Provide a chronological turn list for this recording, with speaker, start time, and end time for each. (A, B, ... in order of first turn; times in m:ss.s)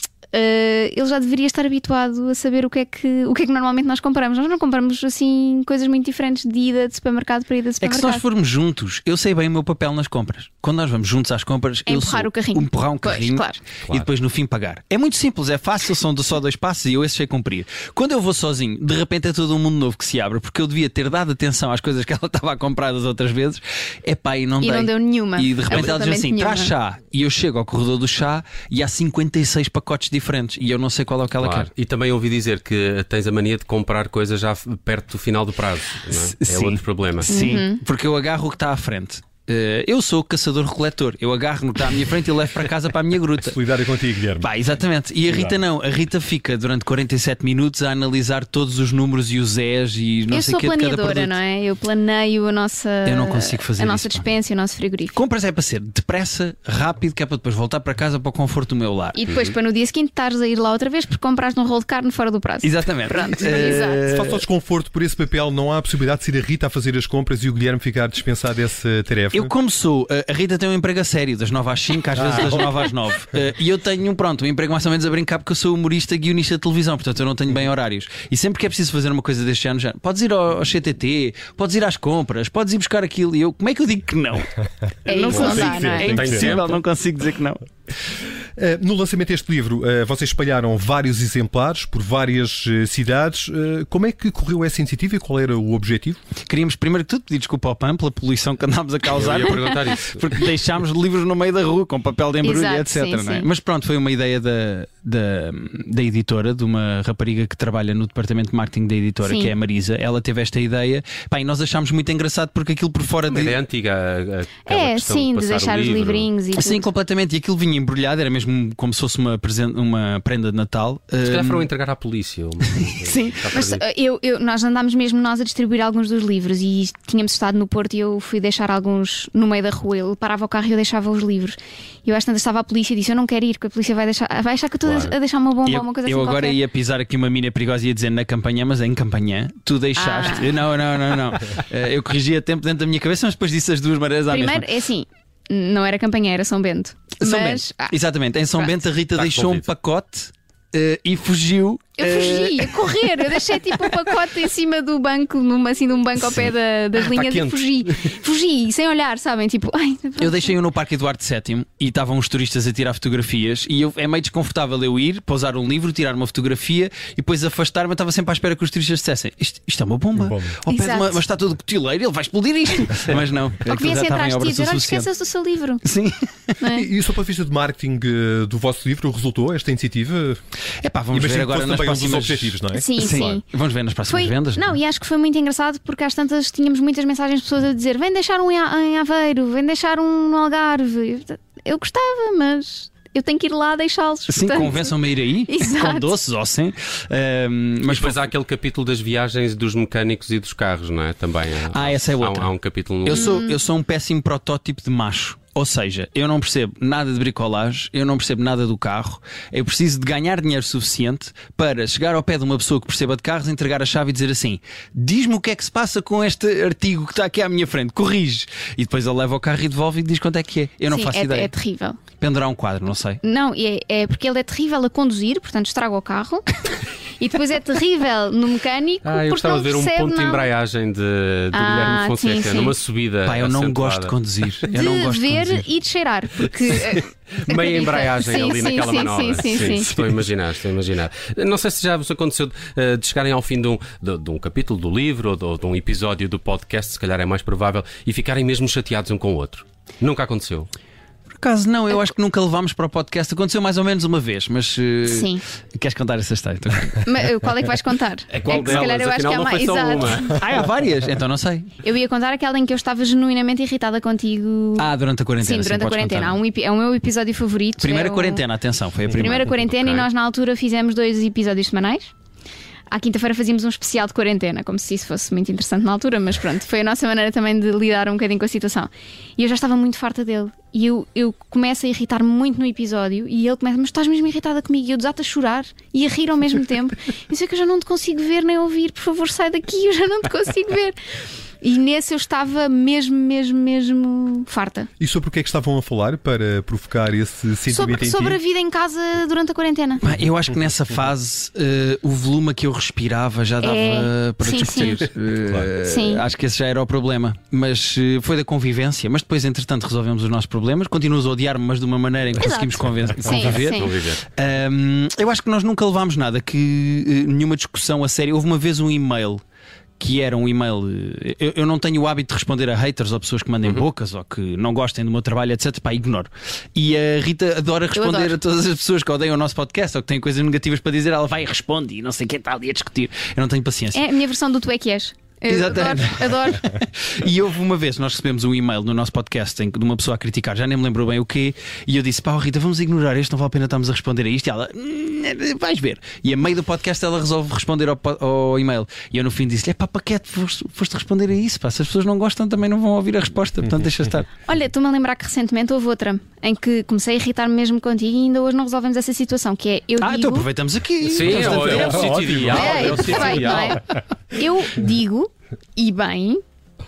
0:00.3-0:08.2 A
0:07.8-0:31.7 B
0:11.9-0:13.6 A
0:24.6-0:26.7 A
0:31.4-0:37.3 C
0:36.1-0:43.7 B
0:37.3-0:37.8 A
0:43.4-0:44.5 D
0:44.4-0:51.4 B
0:45.3-0:45.6 D
0:50.3-0:55.2 A
0:53.0-0:54.2 B
0:55.1-0:59.3 B
0:59.1-1:04.0 A
1:02.6-1:04.4 B
1:03.5-1:09.5 D
1:09.3-1:24.5 B
1:12.1-1:12.7 D
1:25.0-1:27.6 B
1:25.0-1:26.3 A
1:25.3-1:26.6 D
1:25.3-1:26.8 C
1:28.6-1:36.2 D
1:36.4-1:53.6 B
1:39.1-1:40.5 C
1:42.4-1:43.5 A
1:49.2-1:49.5 A
1:53.3-1:56.3 C
1:54.6-1:56.8 A
1:56.5-2:01.7 B
2:01.2-2:03.8 C
2:02.7-2:03.6 B
2:03.5-2:16.6 A
2:14.8-2:15.1 C
2:15.6-2:24.7 B
2:20.0-2:20.5 A
2:24.3-2:27.9 A
2:27.2-2:32.9 B
2:29.1-2:29.7 C
2:32.0-2:40.6 A
2:40.2-2:55.1 B
2:50.2-2:50.6 D
2:50.7-2:51.2 A
2:53.6-2:55.8 A
2:55.8-2:56.6 B
2:56.6-2:56.9 A
2:56.7-3:00.4 D
3:00.8-3:04.8 B
3:01.1-3:03.3 D
3:02.7-3:03.4 A
3:04.1-3:16.2 A
3:14.3-3:18.3 B
3:17.9-3:23.4 C
3:21.7-3:22.5 B
3:23.0-3:41.5 B
3:23.1-3:23.6 A
3:40.9-3:42.0 A
3:42.2-3:43.2 B
3:43.2-3:50.5 A
3:49.0-3:54.1 C
3:51.5-3:52.7 A
3:53.2-3:55.7 B
3:54.7-3:59.9 A
3:56.8-4:10.7 C
3:59.5-4:00.1 B
4:11.3-4:17.0 B
4:15.0-4:15.4 A
4:17.0-4:20.4 A
4:18.3-4:20.5 C
4:20.3-4:21.7 B
4:21.8-4:24.9 A
4:24.8-4:26.4 B
4:25.4-4:28.4 A
4:27.8-4:29.6 B
4:29.1-4:32.1 A
4:29.6-4:30.1 C
4:32.9-4:51.0 A
4:51.6-4:54.9 A
4:55.0-4:58.4 D
4:57.7-5:00.0 A
5:00.0-5:19.4 B
5:03.6-5:05.0 A
5:05.8-5:06.2 A
5:12.4-5:13.9 A
5:13.6-5:14.2 C
5:20.0-5:34.0 B
5:27.9-5:28.4 A
5:33.9-5:36.7 A
5:35.5-5:54.3 B
5:54.4-6:00.5 A
6:00.0-6:03.8 B
6:01.0-6:03.8 C
6:01.2-6:03.3 D
6:02.5-6:06.4 A